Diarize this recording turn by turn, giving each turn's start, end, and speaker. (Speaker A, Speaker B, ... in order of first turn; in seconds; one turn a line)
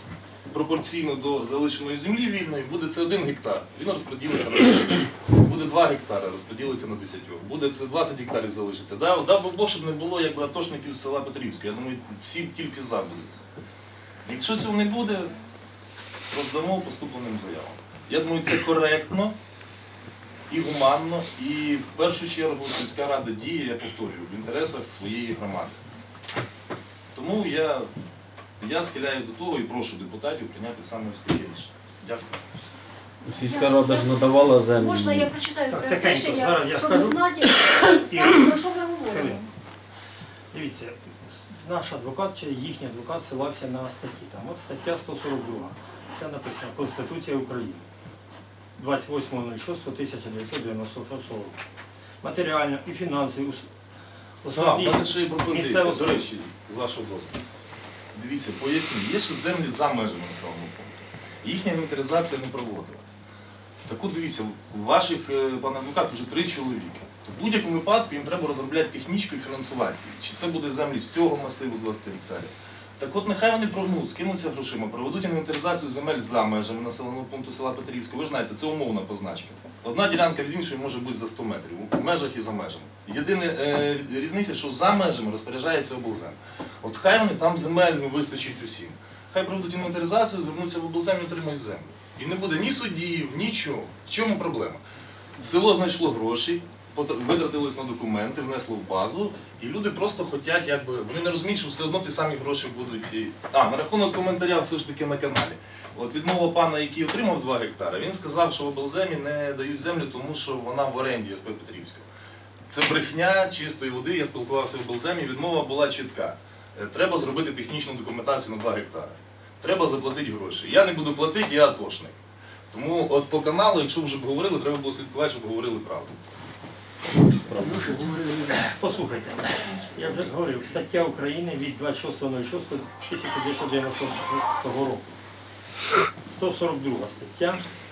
Speaker A: 0.5-13.4
Speaker A: 14.2-15.3
Speaker A: 16.3-19.4
Speaker A: 20.5-25.8
Speaker A: 27.1-27.9
Speaker A: 28.6-32.7
Speaker B: 33.2-35.3
Speaker C: 33.3-34.1
Speaker C: 34.8-39.5
Speaker D: 35.7-37.2
Speaker D: 37.9-38.5
Speaker D: 39.1-39.4
Speaker D: 40.5-47.9
Speaker D: 48.8-51.6
Speaker D: 52.2-53.7
Speaker D: 54.4-56.3
Speaker A: 54.5-57.4
Speaker A: 58.1-63.2
Speaker A: 63.9-94.8
Speaker A: 95.4-112.1
Speaker A: 112.7-122.2
Speaker A: 122.7-126.2
Speaker D: 127.4-135.1
Speaker D: 136.3-137.6